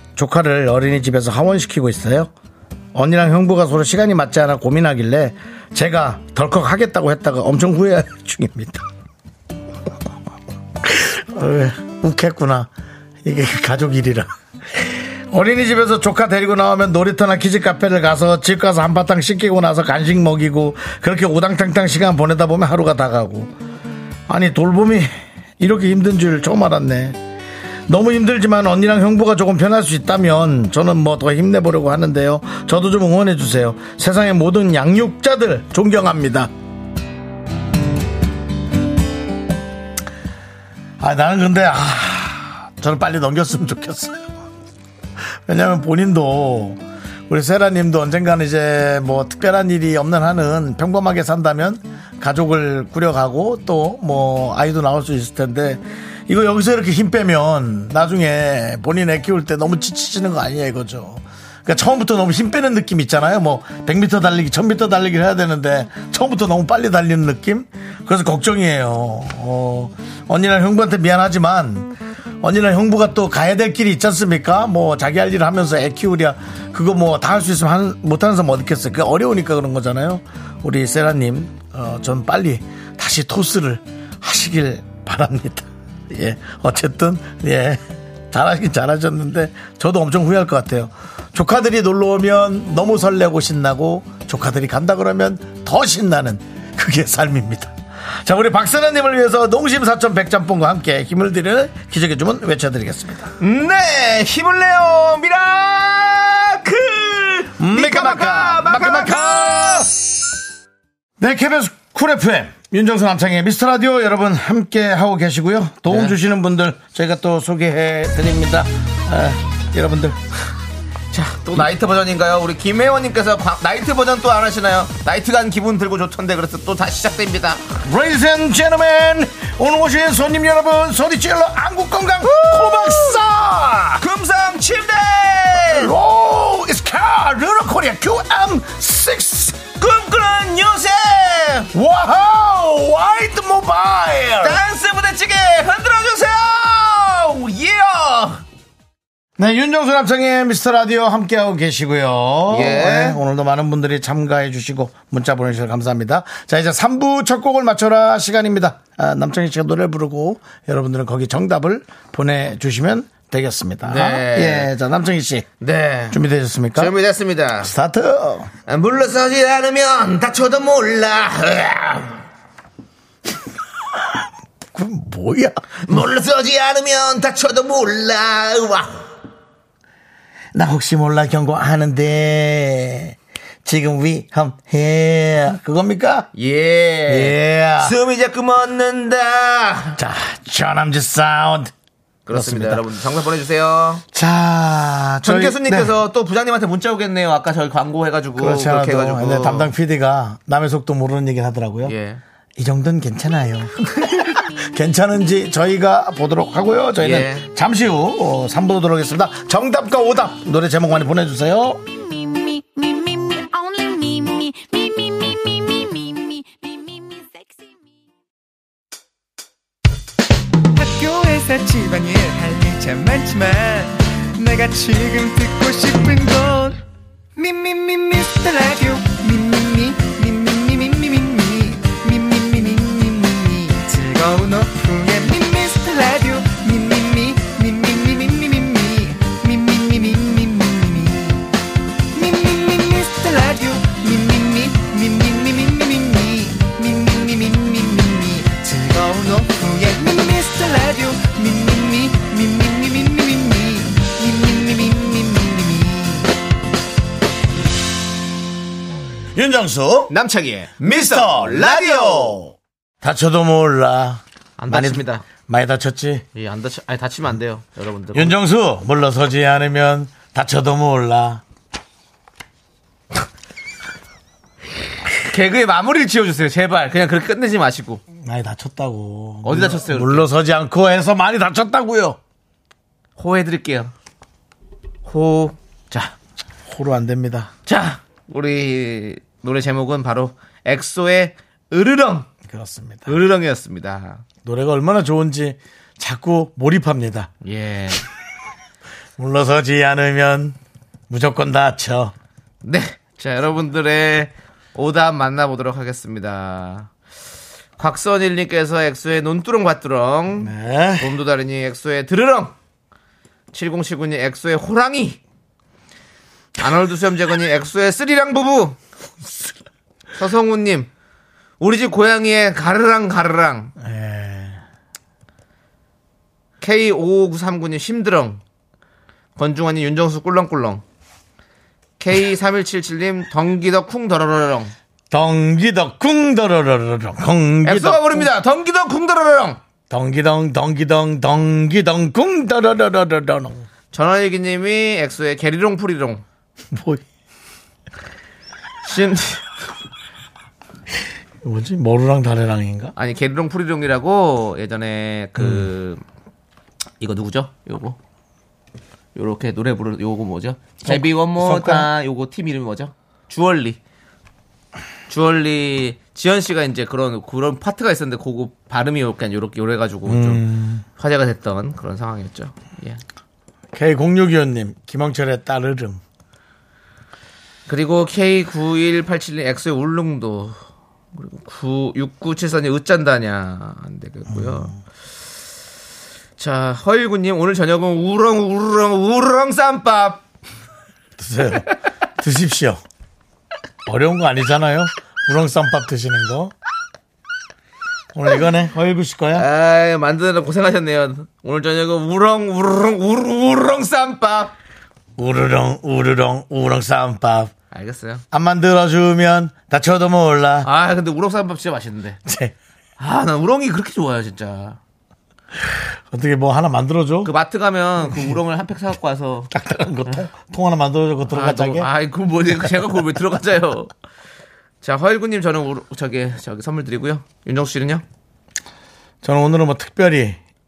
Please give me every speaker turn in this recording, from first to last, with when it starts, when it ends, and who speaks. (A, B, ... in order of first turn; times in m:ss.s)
0:00.2-0:02.3 A
0:02.9-0:08.8 A
0:10.8-0:12.7 A
0:13.2-0:23.5 A
0:24.3-0:27.2 A
0:27.9-0:36.5 A
0:41.0-0:44.3 A
0:45.4-1:43.3 A
1:43.4-1:49.8 B
1:47.6-1:50.1 A
1:51.2-2:00.2 A
1:55.9-1:56.2 B
2:01.1-2:07.6 B
2:07.8-2:14.0 A
2:12.2-2:13.2 B
2:14.0-2:15.9 B
2:15.6-2:19.6 A
2:19.8-2:21.7 B
2:21.7-2:24.6 A
2:24.4-2:28.4 B
2:29.4-2:45.5 A
2:32.5-2:33.2 B
2:43.8-2:44.7 B
2:45.6-2:46.2 B
2:46.1-2:46.9 A
2:46.8-2:47.7 B
2:47.6-2:48.5 A
2:48.7-2:52.2 B
2:54.7-2:56.0 A
2:55.8-2:59.1 B
3:00.5-3:06.3 A
3:06.3-3:10.0 B
3:07.1-3:08.0 A
3:10.0-3:11.7 A
3:12.2-3:14.0 B
3:12.3-3:12.8 A
3:14.1-3:16.0 A
3:15.2-3:19.7 B
3:18.4-3:21.9 A
3:21.8-3:22.2 B
3:22.6-3:31.8 A
3:27.0-3:27.5 B
3:32.1-3:37.5 C
3:40.7-3:46.8 D
3:47.4-4:01.5 D
4:02.1-4:16.3 D
4:19.3-4:20.1 A
4:20.1-4:22.4 B
4:20.8-4:26.2 A
4:24.6-4:25.2 B
4:26.3-4:28.4 B
4:28.1-4:31.4 A
4:35.2-4:38.0 B
4:38.2-4:42.2 A
4:39.4-4:40.3 B
4:43.2-4:43.9 B
4:45.0-4:46.1 B
4:46.7-4:47.5 A
4:47.6-4:52.3 B
4:52.4-4:53.2 A
4:53.0-4:54.2 B
4:54.4-4:57.3 A
4:57.4-4:58.0 B
4:59.2-5:00.6 A
5:01.1-5:02.1 A
5:02.6-5:06.9 B
5:07.8-5:12.5 B
5:10.4-5:11.1 A
5:13.5-5:15.2 B
5:16.6-5:18.8 B
5:20.2-5:20.9 B
5:21.6-5:23.7 B
5:23.8-5:24.6 A
5:26.6-5:28.4 B
5:29.4-5:30.8 B
5:32.0-5:34.7 B
5:35.1-5:38.3 A
5:37.6-5:39.6 B
5:39.9-5:43.6 A
5:43.9-5:46.2 B
5:46.7-5:47.0 A
5:48.8-5:49.4 B
5:51.4-5:52.9 A
5:53.0-5:56.0 B
5:55.4-5:55.7 A
5:57.0-5:58.0 B
5:59.1-6:03.8 B
6:00.8-6:01.9 A
6:05.1-6:10.4 B
6:10.0-6:10.8 A
6:11.0-6:13.0 B
6:13.7-6:16.0 A
6:17.7-6:20.6 B
6:21.1-6:24.7 B
6:24.3-6:24.8 A
6:26.4-6:30.2 B
6:31.2-6:32.8 A
6:33.8-6:36.5 A
6:38.1-6:39.4 A
6:39.3-6:44.5 B
6:45.2-6:47.5 A
6:47.7-6:48.2 B
6:48.3-6:50.7 A
6:50.6-6:52.2 B
6:52.2-6:52.5 A
6:53.0-6:54.8 B
6:55.7-6:57.3 A
6:57.2-6:59.5 B
6:59.5-7:01.9 A
7:01.3-7:03.9 B
7:04.8-7:08.0 B
7:09.2-7:10.4 A